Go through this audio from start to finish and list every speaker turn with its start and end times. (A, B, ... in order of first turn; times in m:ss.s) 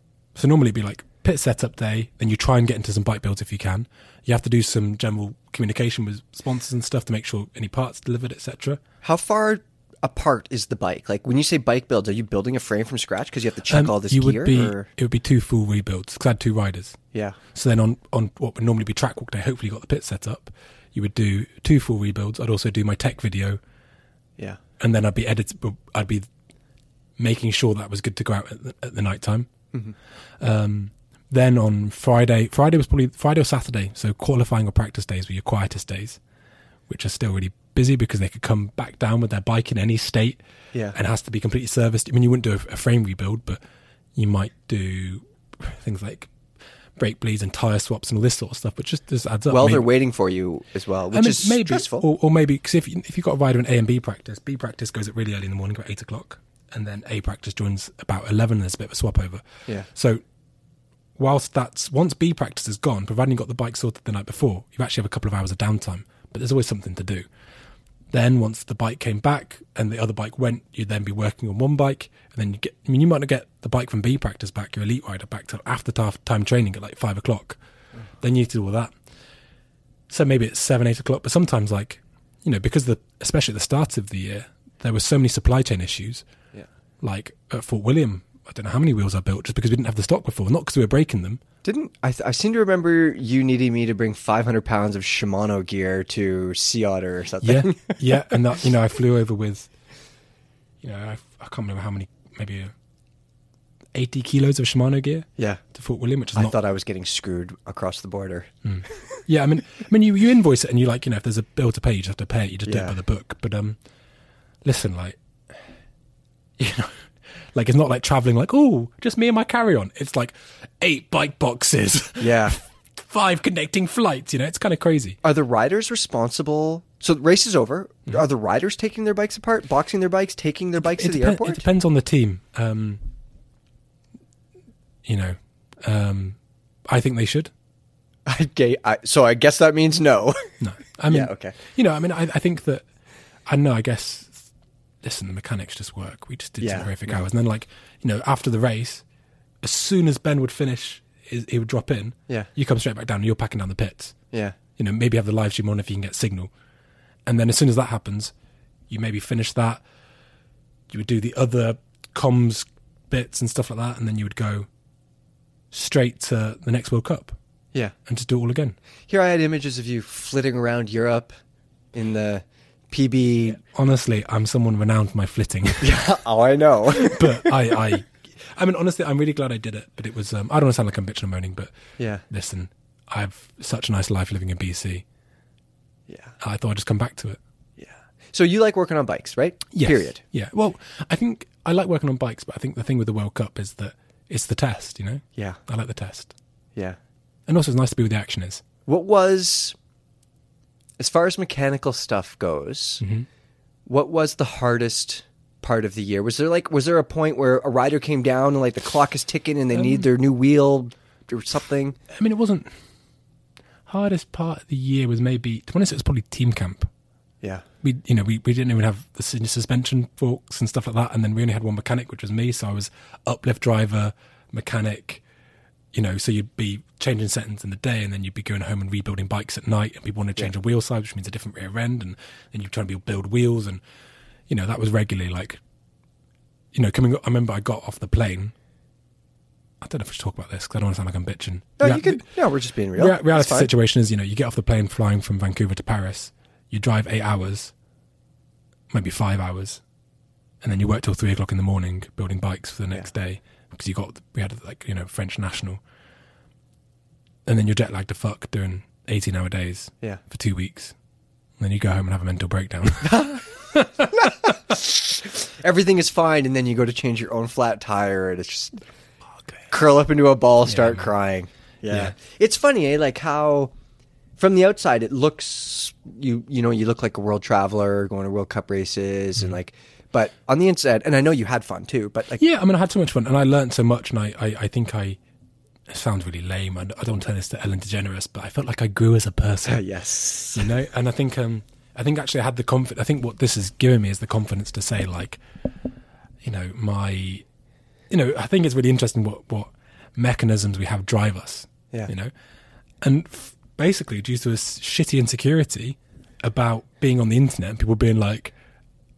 0:00.4-0:08.8 A
0:09.0-0:14.9 B
0:13.7-0:17.0 A
0:17.5-0:23.6 A
0:24.8-0:26.3 A
0:27.2-0:29.5 A
0:30.4-0:36.2 A
0:36.9-0:40.4 A
0:40.9-0:43.6 A
0:44.2-0:46.3 A
0:47.0-0:49.9 A
0:49.5-0:52.1 B
0:51.1-1:00.2 A
1:01.2-1:07.3 A
1:08.1-1:17.6 A
1:18.2-1:18.9 A
1:20.1-1:26.3 A
1:27.0-1:31.4 A
1:31.6-1:38.2 B
1:37.4-1:39.7 A
1:40.8-1:42.7 A
1:43.9-1:46.6 A
1:46.4-1:49.1 B
1:48.6-1:53.8 A
1:52.7-1:53.0 B
1:54.6-1:55.6 A
1:56.6-1:57.0 A
1:57.5-2:05.2 A
2:02.2-2:02.6 B
2:05.2-2:11.6 B
2:10.8-2:13.0 A
2:15.0-2:16.4 A
2:16.9-2:17.5 A
2:18.3-2:21.6 B
2:20.6-2:22.8 A
2:23.5-2:24.5 A
2:25.0-2:29.0 A
2:26.6-2:27.2 B
2:29.6-2:34.2 A
2:34.3-2:34.6 B
2:34.8-2:36.5 A
2:37.3-2:38.3 A
2:38.9-2:39.8 A
2:40.9-2:44.7 A
2:45.7-2:47.4 A
2:48.1-2:48.8 A
2:49.1-2:51.3 B
2:51.9-2:53.6 B
2:53.5-2:56.0 A
2:55.8-2:57.6 B
2:57.0-3:01.7 A
3:02.0-3:02.2 B
3:02.3-3:05.0 A
3:06.1-3:06.4 B
3:06.4-3:07.4 A
3:07.8-3:10.2 B
3:09.7-3:16.3 A
3:17.5-3:18.6 A
3:18.9-3:19.8 B
3:21.0-3:23.0 B
3:23.0-3:23.3 A
3:23.9-3:32.0 B
3:32.1-3:32.7 A
3:33.9-3:36.9 A
3:37.8-3:45.2 A
3:45.9-3:53.8 A
3:54.5-3:55.6 A
3:56.7-3:58.5 A
3:59.8-4:02.2 A
4:01.8-4:03.7 B
4:03.0-4:07.7 A
4:08.9-4:09.8 A
4:10.6-4:15.8 A
4:17.5-4:21.0 A
4:21.6-4:24.3 A
4:23.0-4:23.4 B
4:24.1-4:28.8 B
4:29.7-4:33.7 B
4:30.7-4:31.1 A
4:34.4-4:42.4 B
4:42.4-4:45.2 A
4:45.9-4:49.8 A
4:49.7-4:50.7 B
4:50.5-4:55.4 A
4:56.4-4:57.5 A
4:58.1-5:02.3 A
5:03.0-5:08.5 A